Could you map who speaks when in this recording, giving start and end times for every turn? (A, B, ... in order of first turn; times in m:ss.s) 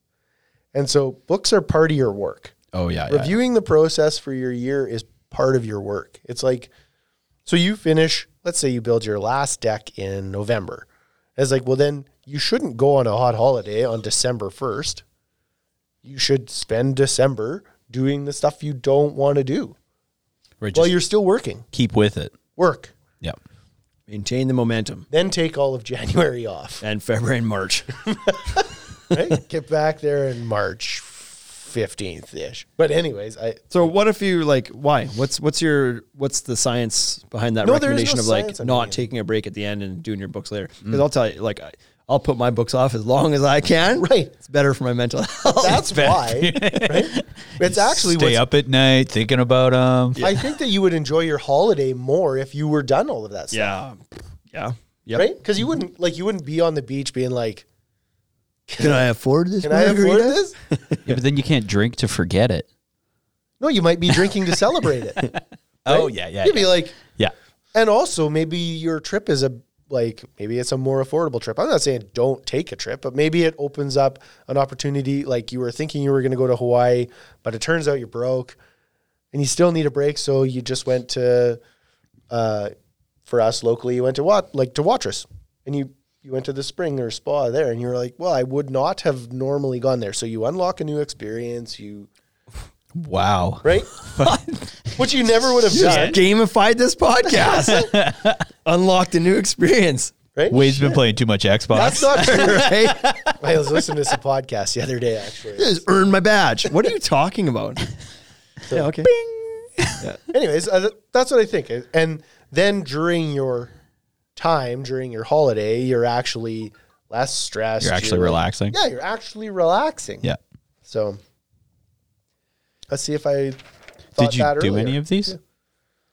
0:00.7-0:02.6 A
0:02.7-0:03.4 B
0:03.1-0:06.7 A
0:07.5-0:15.0 A
0:16.0-0:19.8 A
0:20.6-0:20.9 B
0:20.7-0:21.7 A
0:21.7-0:22.4 B
0:22.6-0:22.9 A
0:24.1-0:25.1 C
0:25.1-0:26.8 A
0:26.8-0:28.1 C
0:29.1-0:33.7 A
0:33.7-0:46.1 C
0:37.6-0:39.1 A
0:44.0-0:44.3 A
0:45.6-0:48.4 A
0:45.8-0:50.3 B
0:50.2-0:53.8 A
0:53.5-0:54.0 C
0:54.5-0:55.3 C
0:55.2-0:57.6 A
0:58.7-0:59.1 A
0:58.8-1:01.2 C
0:59.6-1:00.6 A
1:01.1-1:02.7 B
1:03.6-1:05.3 A
1:05.8-1:07.3 B
1:05.9-1:07.0 A
1:07.7-1:18.6 A
1:19.3-1:21.6 A
1:22.3-1:22.7 A
1:23.3-1:32.1 A
1:32.9-1:34.4 B
1:33.6-1:34.0 A
1:35.0-1:36.2 A
1:35.7-1:38.0 C
1:35.7-1:36.2 B
1:37.7-1:38.5 B
1:38.6-1:40.1 C
1:40.4-1:40.8 A
1:40.5-1:43.3 B
1:41.7-1:42.8 A
1:42.1-1:43.2 C
1:43.4-1:45.8 A
1:45.6-1:47.9 C
1:48.7-1:49.1 C
1:50.3-1:53.7 A
1:54.4-2:00.3 A
1:57.8-1:58.8 B
2:00.9-2:01.2 A
2:02.9-2:03.6 A
2:04.2-2:05.4 A
2:04.2-2:05.4 B